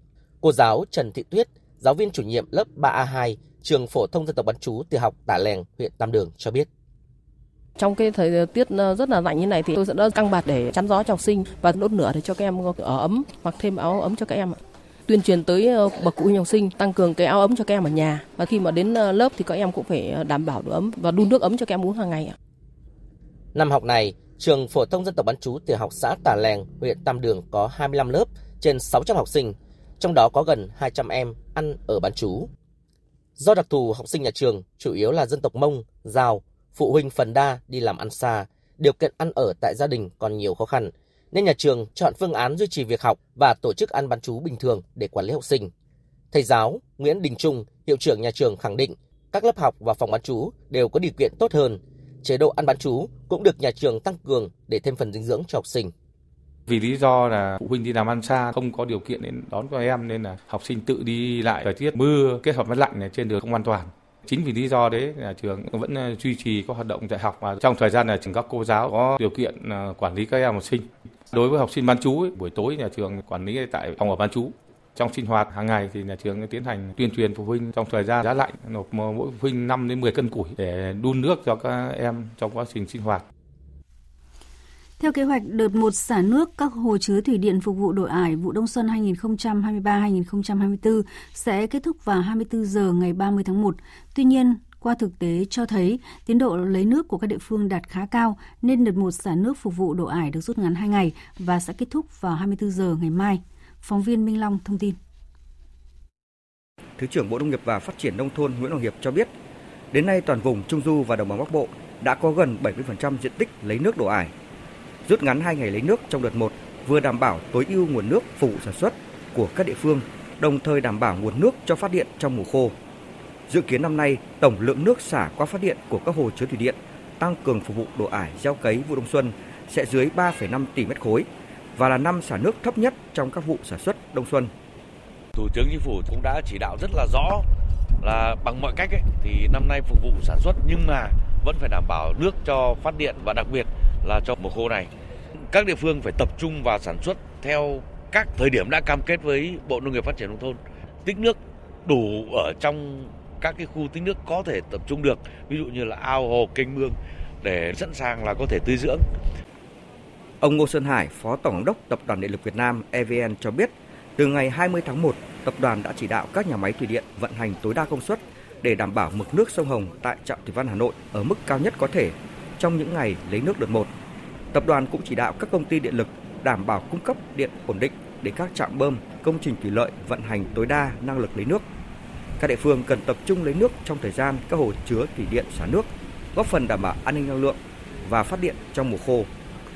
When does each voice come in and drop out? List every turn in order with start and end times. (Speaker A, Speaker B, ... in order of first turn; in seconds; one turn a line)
Speaker A: 0.4-6.7
Speaker B: 7.8-22.3
Speaker A: 23.5-32.5
Speaker A: 33.4-45.7
Speaker A: 46.3-55.9
Speaker C: 56.7-83.2
Speaker D: 85.0-105.0
Speaker E: 107.0-109.3
Speaker E: 109.9-114.3
Speaker E: 115.0-122.7
Speaker E: 123.5-134.5
Speaker F: 135.3-137.4
Speaker F: 138.0-144.9
Speaker F: 145.5-159.0
Speaker E: 160.4-173.9
Speaker E: 174.5-181.6
Speaker E: 182.4-189.3